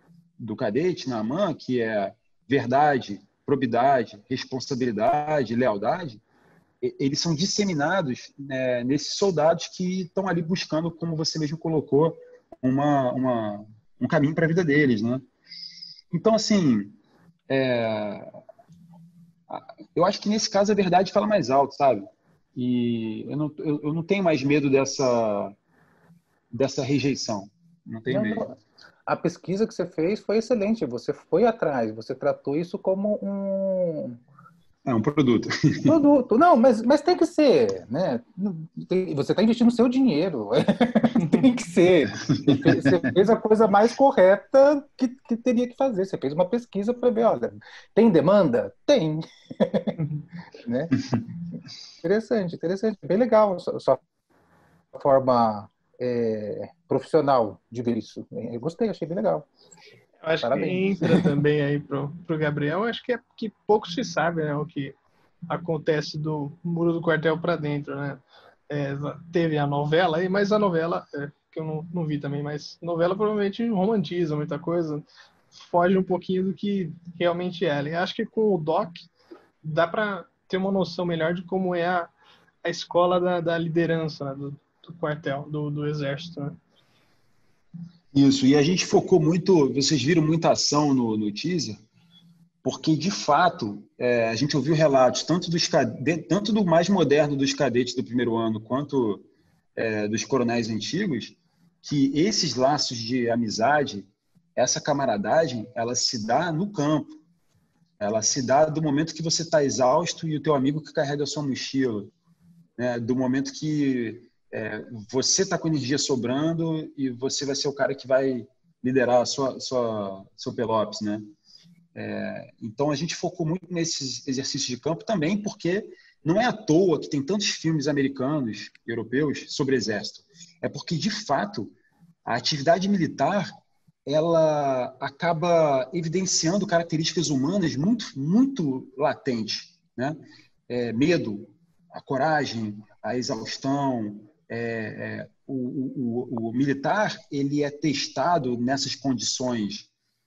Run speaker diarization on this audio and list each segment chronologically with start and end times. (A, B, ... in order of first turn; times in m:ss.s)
0:00.4-0:06.2 A
0:06.8-0:15.2 A
0:16.1-0:17.0 A
0:17.5-0:18.3 A
0:19.5-0:25.6 A
0:26.5-0:28.4 A
0:28.1-0:34.2 B
0:34.9-0:36.0 A
0:35.9-0:50.0 B
0:42.3-0:43.1 A
0:50.6-0:51.0 B
0:52.0-0:54.0 B
0:54.9-0:59.5 B
1:00.2-1:05.0 C
1:00.4-1:01.2 B
1:05.5-1:19.1 C
1:19.6-1:22.1 C
1:22.6-1:26.6 C
1:28.1-1:31.8 A
1:32.6-1:39.2 A
1:39.8-1:47.1 A
1:48.0-1:52.1 A
1:52.8-2:01.2 A
2:02.0-2:11.7 A
2:12.3-2:13.5 A
2:14.1-2:29.9 A